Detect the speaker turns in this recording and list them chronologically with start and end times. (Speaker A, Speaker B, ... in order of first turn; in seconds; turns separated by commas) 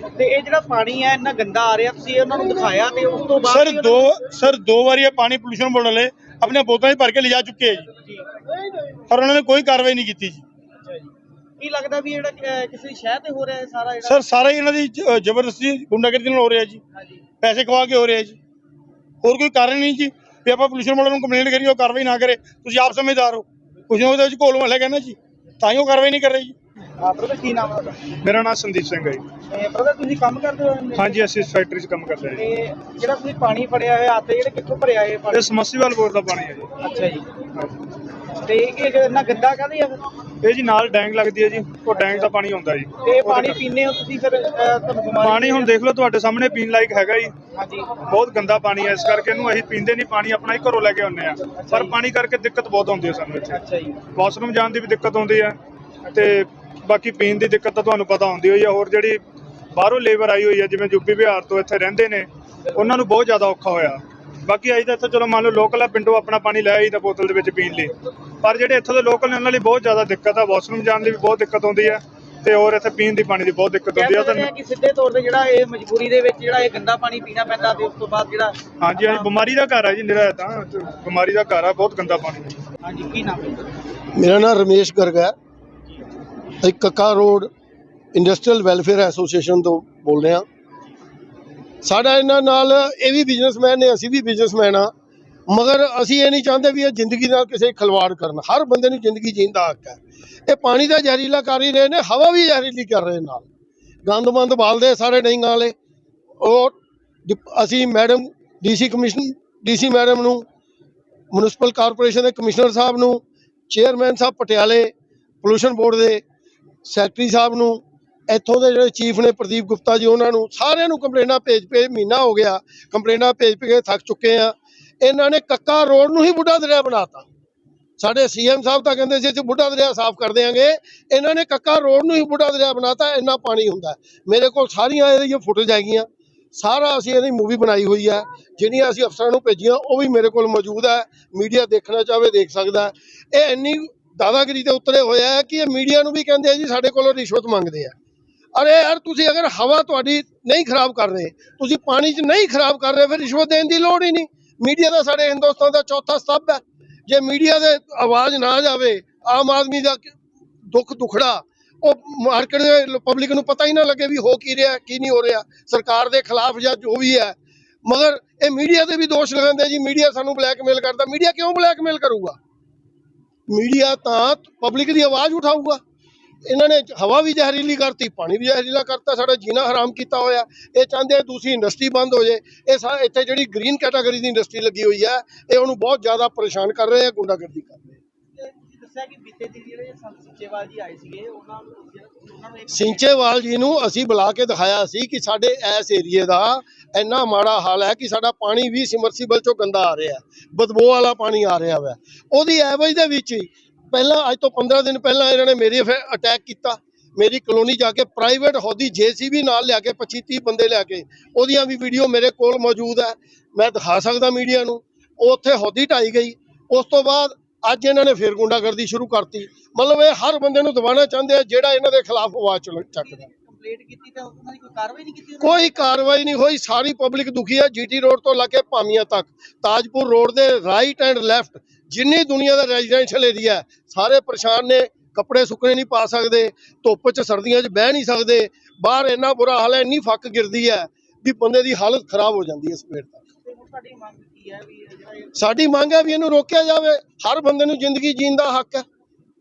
Speaker A: 0.1-4.1, Speaker B: 3.5-7.9, Speaker B: 9.1-10.4, Speaker A: 10.8-14.3, Speaker B: 14.0-16.8, Speaker A: 16.9-17.2, Speaker B: 17.4-18.4, Speaker B: 19.2-26.5, Speaker A: 27.0-28.0, Speaker C: 28.1-29.2, Speaker A: 29.5-31.2, Speaker C: 30.9-32.4, Speaker A: 32.4-35.5, Speaker C: 35.3-36.8, Speaker A: 36.8-37.3, Speaker A: 38.4-40.0, Speaker C: 40.4-43.6, Speaker A: 43.0-45.7, Speaker C: 45.2-47.3, Speaker A: 47.5-48.0, Speaker C: 48.0-53.6, Speaker A: 51.5-51.9, Speaker A: 53.5-54.0, Speaker C: 54.1-59.2, Speaker C: 59.7-74.5, Speaker A: 73.9-79.3, Speaker C: 78.8-82.6, Speaker A: 82.8-83.7, Speaker D: 84.1-85.3, Speaker D: 86.6-87.5, Speaker D: 88.1-90.5, Speaker D: 91.8-94.9, Speaker D: 95.5-103.5, Speaker D: 104.0-105.7, Speaker D: 106.4-110.4, Speaker D: 111.3-114.9, Speaker D: 115.4-116.2, Speaker D: 116.8-127.2, Speaker D: 128.0-147.9, Speaker D: 148.5-172.4, Speaker D: 173.5-175.8, Speaker D: 176.4-188.0, Speaker A: 188.3-193.1, Speaker D: 192.7-223.2, Speaker A: 223.0-225.8, Speaker D: 225.4-243.2, Speaker A: 243.4-245.5, Speaker D: 245.3-248.8